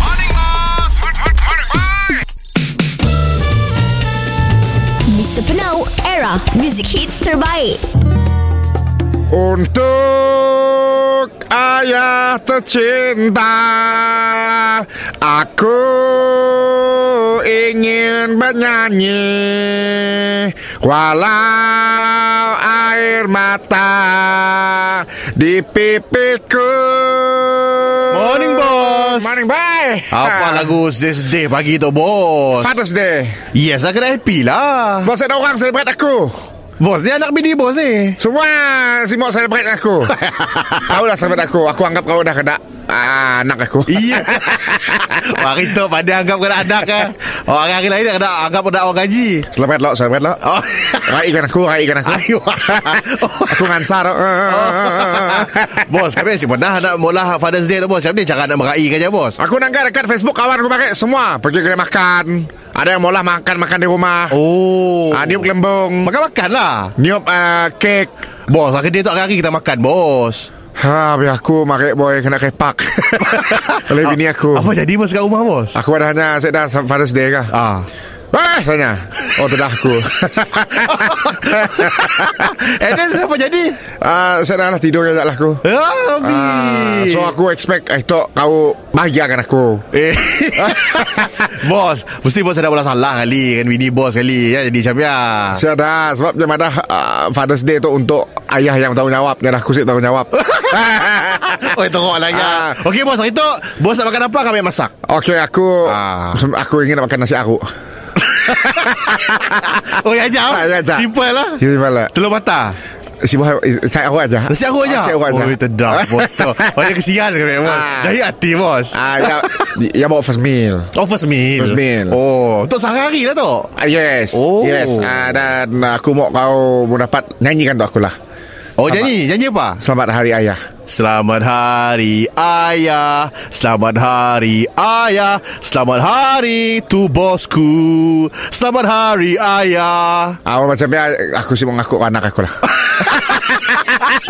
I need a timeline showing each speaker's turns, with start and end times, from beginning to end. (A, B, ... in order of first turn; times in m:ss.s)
0:05.1-0:07.8 A
0:09.3-0:30.8 B
0:28.1-0:29.4 C
0:30.1-0:32.7 C
0:32.6-0:33.4 B
0:33.5-0:35.1 C
0:35.0-0:36.3 B
0:36.8-0:38.2 C
0:38.2-0:40.2 B
0:40.2-0:40.8 C
0:40.7-0:45.2 B
0:43.9-0:49.5 C
0:49.5-0:56.1 B
0:50.4-0:51.2 C
0:52.1-0:53.9 C
0:54.5-0:59.4 C
0:59.4-1:04.4 B
1:04.3-1:05.5 C
1:05.1-1:06.1 B
1:06.0-1:06.9 C
1:07.0-1:08.1 B
1:08.5-1:10.5 C
1:10.8-1:14.7 B
1:13.2-1:15.8 C
1:15.7-1:17.5 B
1:17.5-1:17.9 C
1:18.3-1:22.5 B
1:20.9-1:23.8 C
1:24.0-1:25.6 B
1:25.6-1:27.4 C
1:26.2-1:29.8 B
1:29.9-1:35.6 C
1:30.6-1:31.4 B
1:35.5-1:41.6 B
1:40.4-1:44.9 C
1:42.3-1:42.8 B
1:45.0-1:47.6 B
1:45.8-1:46.4 C
1:48.3-1:52.8 C
1:48.3-1:49.7 B
1:50.4-1:51.1 B
1:51.6-1:52.1 B
1:53.2-1:56.9 B
1:54.5-1:59.6 C
1:57.6-1:58.2 B
1:58.9-2:00.9 B
2:00.9-2:03.7 C
2:01.6-2:02.2 B
2:03.8-2:08.1 B
2:04.3-2:05.3 C
2:08.8-2:09.8 C
2:09.8-2:10.6 B
2:10.9-2:20.4 C
2:20.4-2:24.0 B